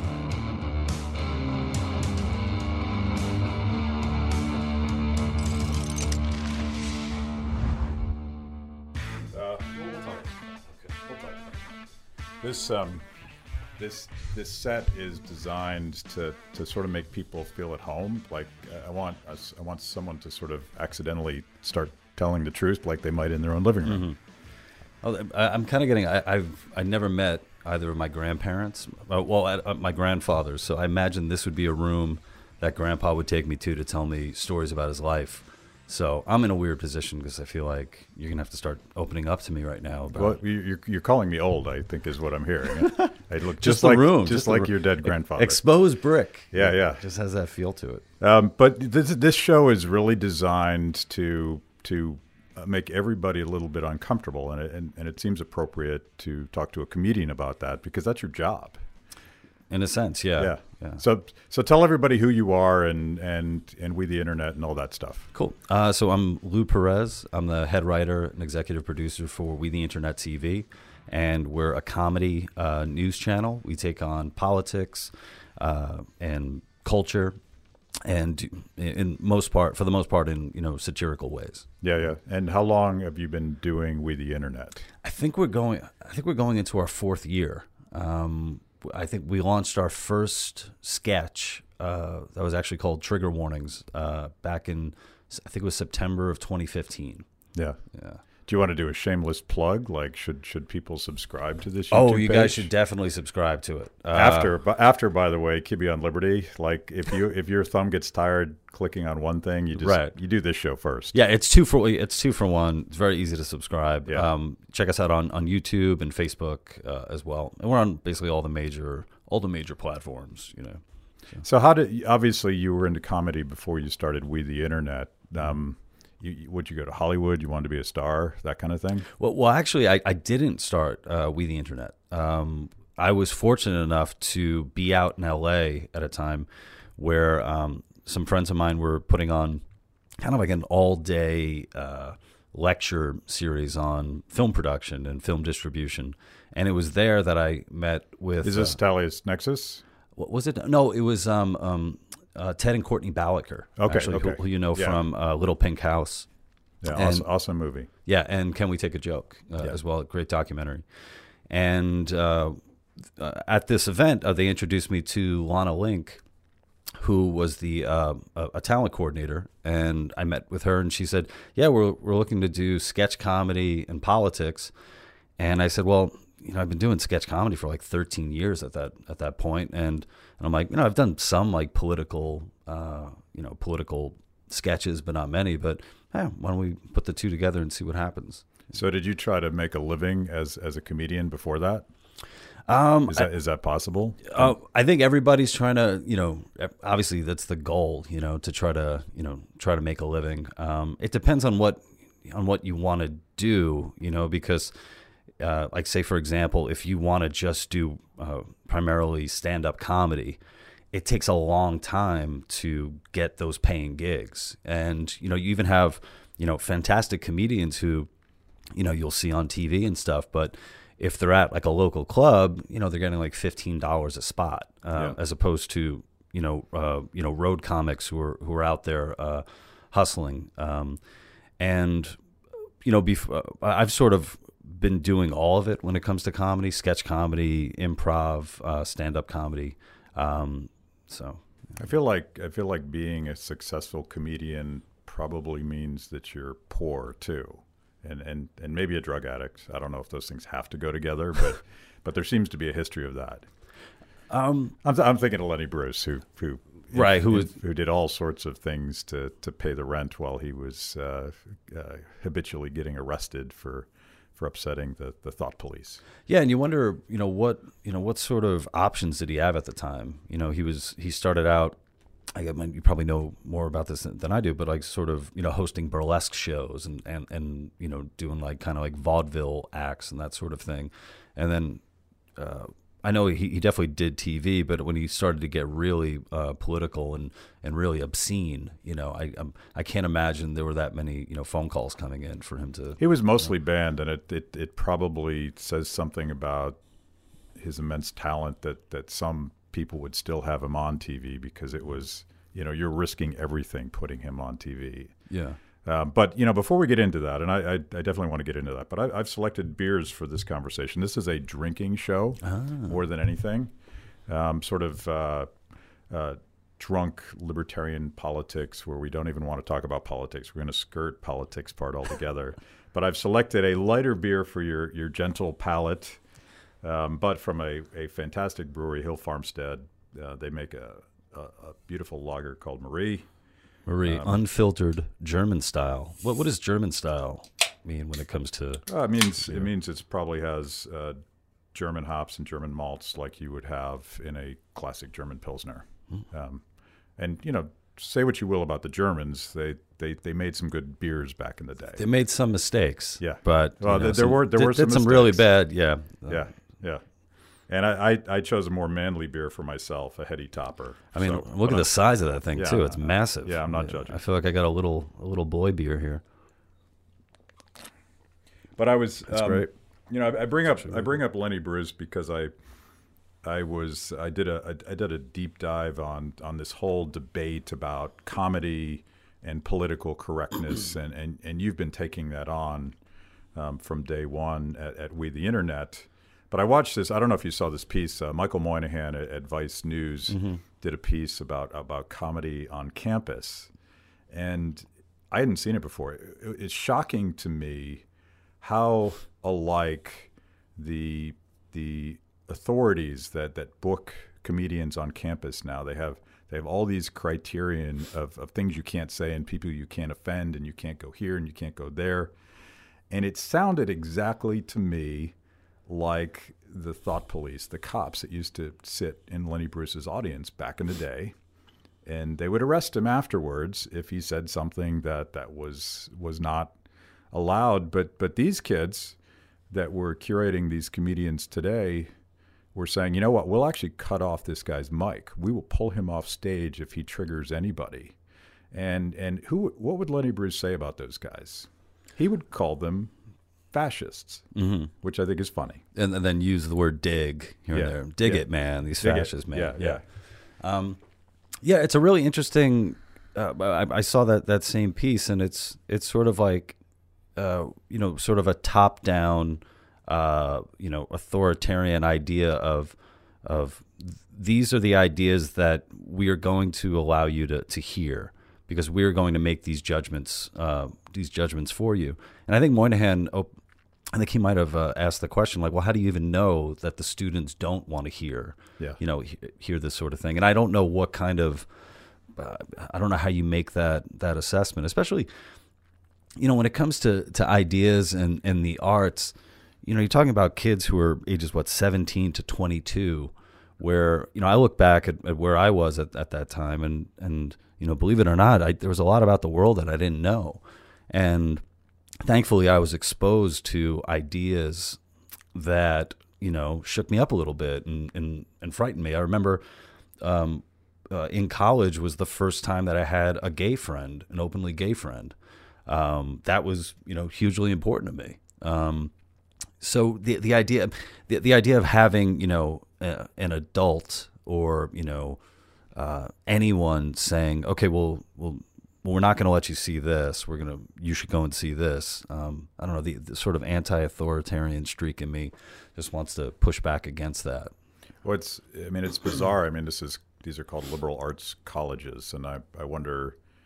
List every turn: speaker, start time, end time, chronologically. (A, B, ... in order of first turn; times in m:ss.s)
0:09.3-0:10.4 A
0:10.9-0:11.5 A
0:12.4-0:13.1 A
0:13.8-0:24.0 A
0:23.8-0:24.2 B
0:25.0-0:40.4 B
0:40.1-0:45.6 A
0:42.8-0:48.0 B
0:46.5-0:47.0 A
0:48.2-0:58.8 A
0:59.7-1:01.0 B
1:00.4-1:05.3 A
1:05.3-1:17.4 B
1:18.0-1:21.7 B
1:21.8-1:24.9 A
1:25.0-1:37.2 B
1:37.9-1:38.2 B
1:38.4-1:42.7 A
1:41.9-1:44.5 B
1:44.1-1:51.1 A
1:49.8-1:50.1 B
1:51.1-2:01.4 B
2:01.4-2:09.1 A
2:09.2-2:19.6 B
2:20.2-2:28.8 B
2:28.4-2:29.8 A
2:30.2-2:36.3 B
2:33.8-2:35.0 A
2:36.8-2:37.9 A
2:36.9-2:37.3 B
2:38.0-2:40.8 B
2:41.5-2:42.6 B
2:43.2-2:46.2 B
2:47.0-2:54.7 B
2:55.4-3:08.5 B
3:08.7-3:11.8 A
3:12.7-3:13.3 B
3:13.1-3:14.5 A
3:14.2-3:24.7 B
3:25.4-3:30.4 B
3:30.9-3:38.1 B
3:38.7-3:51.0 B
3:51.6-3:52.2 B
3:52.8-4:01.4 B
4:01.8-4:13.4 A
4:14.3-4:14.8 B
4:14.8-4:26.0 A
4:16.9-4:17.5 B
4:26.3-4:31.8 B
4:32.3-4:41.8 B
4:42.4-4:53.0 B
4:53.0-4:56.8 A
4:57.6-5:05.1 A
5:05.3-5:05.6 B
5:05.8-5:13.7 A
5:12.4-5:13.0 B
5:14.3-5:15.5 A
5:16.1-5:26.2 A
5:26.8-5:33.3 A
5:33.8-5:38.8 B
5:34.0-5:34.4 A
5:38.9-5:41.2 A
5:41.7-5:46.6 A
5:47.2-5:52.0 A
5:52.0-5:56.4 B
5:53.2-5:55.4 A
5:56.3-5:57.0 A
5:57.7-6:01.9 A
6:01.1-6:06.2 B
6:02.5-6:04.2 A
6:08.8-6:12.5 A
6:09.3-6:09.7 B
6:13.4-6:23.0 A
6:23.5-6:33.7 A
6:30.3-6:30.6 B
6:34.3-6:38.0 A
6:38.6-6:52.3 A
6:53.1-6:55.3 A
6:55.9-7:01.4 A
7:02.0-7:06.8 A
7:07.3-7:09.2 A
7:09.7-7:12.1 A
7:12.7-7:18.1 A
7:18.7-7:23.1 A
7:23.7-7:24.5 A
7:24.5-7:24.9 B
7:25.0-7:25.8 A
7:25.9-7:30.0 B
7:27.7-7:28.4 A
7:29.0-7:30.0 A
7:30.6-7:31.0 B
7:31.6-7:36.8 B
7:37.4-7:53.5 B
7:54.1-8:01.7 B
8:02.4-8:05.3 B
8:06.4-8:21.6 B
8:22.2-8:25.0 B
8:25.5-8:29.6 B
8:30.2-8:35.3 B
8:35.9-8:39.1 B
8:39.8-8:45.4 B
8:45.9-8:57.7 B
8:58.2-9:03.4 A